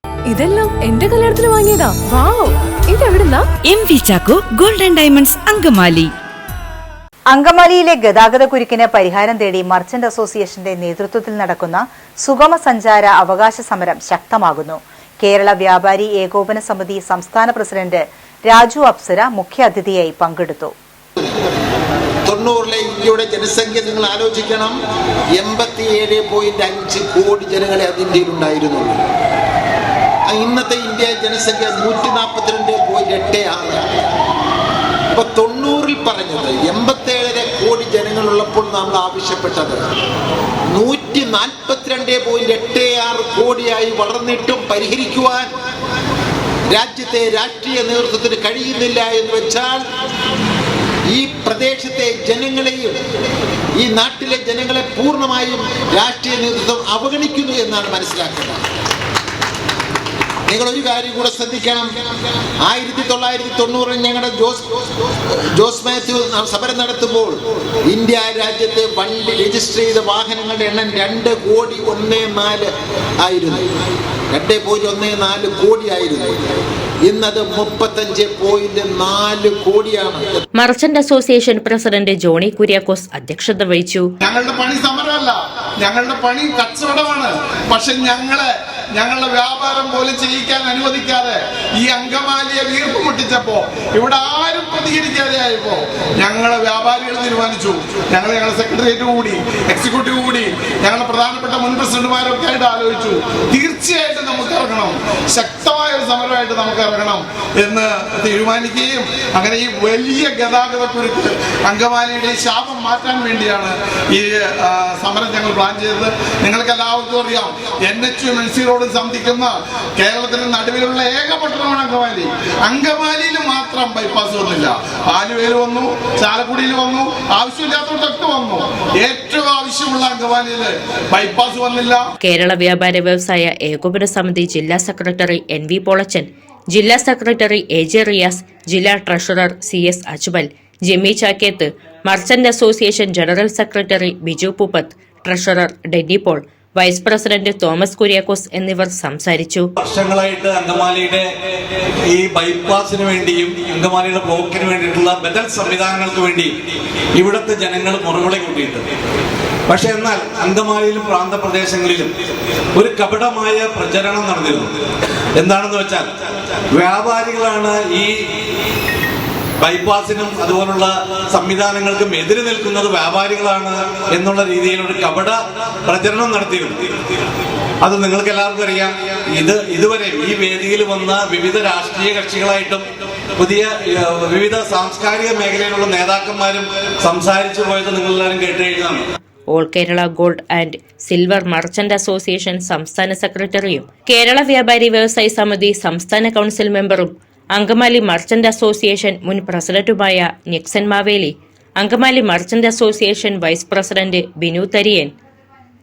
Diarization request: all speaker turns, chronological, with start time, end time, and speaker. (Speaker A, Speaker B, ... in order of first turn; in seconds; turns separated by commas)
Speaker A: 0.3-3.5, Speaker B: 3.6-6.1, Speaker C: 7.3-20.7, Speaker D: 22.2-24.8, Speaker D: 25.4-29.0, Speaker D: 30.3-33.8, Speaker D: 35.1-39.8, Speaker D: 40.7-45.5, Speaker D: 46.7-49.8, Speaker D: 51.1-53.0, Speaker D: 53.8-58.6, Speaker D: 60.5-61.9, Speaker D: 62.6-73.7, Speaker D: 74.3-76.5, Speaker D: 77.1-80.4, Speaker E: 80.5-84.1, Speaker F: 84.2-132.0, Speaker E: 132.2-149.7, Speaker G: 149.8-151.3, Speaker G: 152.1-156.5, Speaker G: 157.2-158.8, Speaker G: 159.7-162.1, Speaker G: 162.7-164.8, Speaker G: 165.4-166.1, Speaker G: 166.8-168.1, Speaker G: 169.6-176.8, Speaker G: 177.8-189.0, Speaker E: 189.5-205.1